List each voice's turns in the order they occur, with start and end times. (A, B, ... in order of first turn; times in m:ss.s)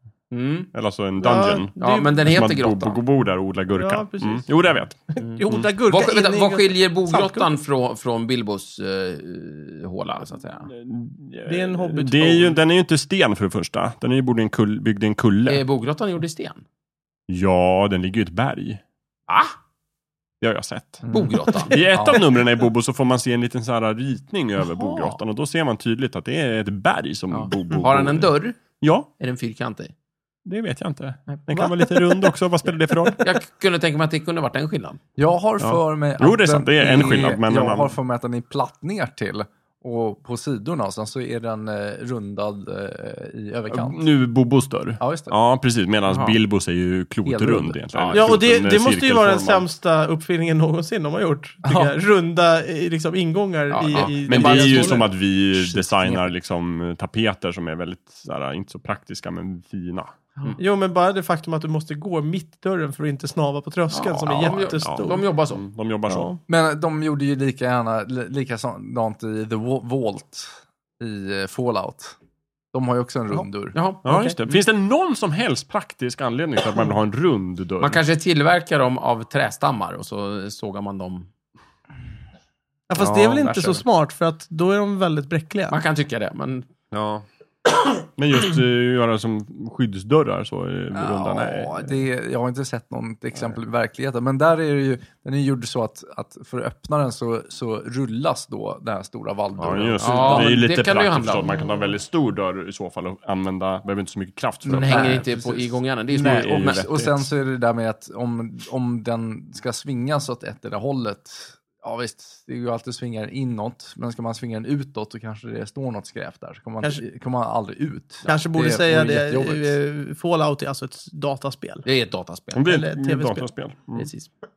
0:00.3-0:00.7 A
0:00.7-0:05.7 B
0:01.2-0:02.2 C
0:01.8-0:03.0 A
0:03.8-0:04.5 C
0:05.1-0:07.5 C
0:05.2-0:10.7 A
0:10.7-0:15.6 B
0:11.5-0:12.6 C
0:15.5-0:16.6 A
0:17.3-0:18.8 B
0:19.3-0:19.5 A
0:20.4-0:29.1 B
0:21.0-0:22.2 D
0:21.1-0:21.8 A
0:27.3-0:28.6 A
0:29.2-0:29.9 A
0:30.5-0:33.2 B
0:31.5-0:31.9 C
0:33.2-0:35.0 A
0:35.2-0:44.0 D
0:35.6-0:38.0 B
0:43.7-0:49.7 B
0:45.0-0:45.4 D
0:46.1-0:46.4 A
0:47.2-0:47.8 D
0:47.9-0:48.3 A
0:48.1-0:55.1 C
0:51.6-0:51.9 D
0:53.7-0:55.0 A
0:53.9-1:00.1 B
0:55.5-0:56.3 D
1:00.6-1:05.2 C
1:03.9-1:05.6 A
1:04.3-1:06.4 B
1:06.1-1:06.4 C
1:06.5-1:12.2 D
1:12.7-1:13.8 D
1:13.7-1:14.6 A
1:14.0-1:18.0 B
1:14.1-1:14.4 C
1:17.8-1:21.3 A
1:22.9-1:25.8 C
1:23.0-1:23.8 A
1:25.7-1:26.7 A
1:26.9-1:27.2 B
1:28.2-1:32.0 B
1:30.9-1:40.6 D
1:39.6-1:45.2 B
1:40.0-1:41.5 A
1:44.6-1:59.8 D
1:44.8-1:46.9 A
1:46.2-1:47.2 B
1:58.3-2:01.9 C
2:01.8-2:02.6 A
2:02.6-2:04.1 B
2:02.7-2:03.5 C
2:04.0-2:04.3 A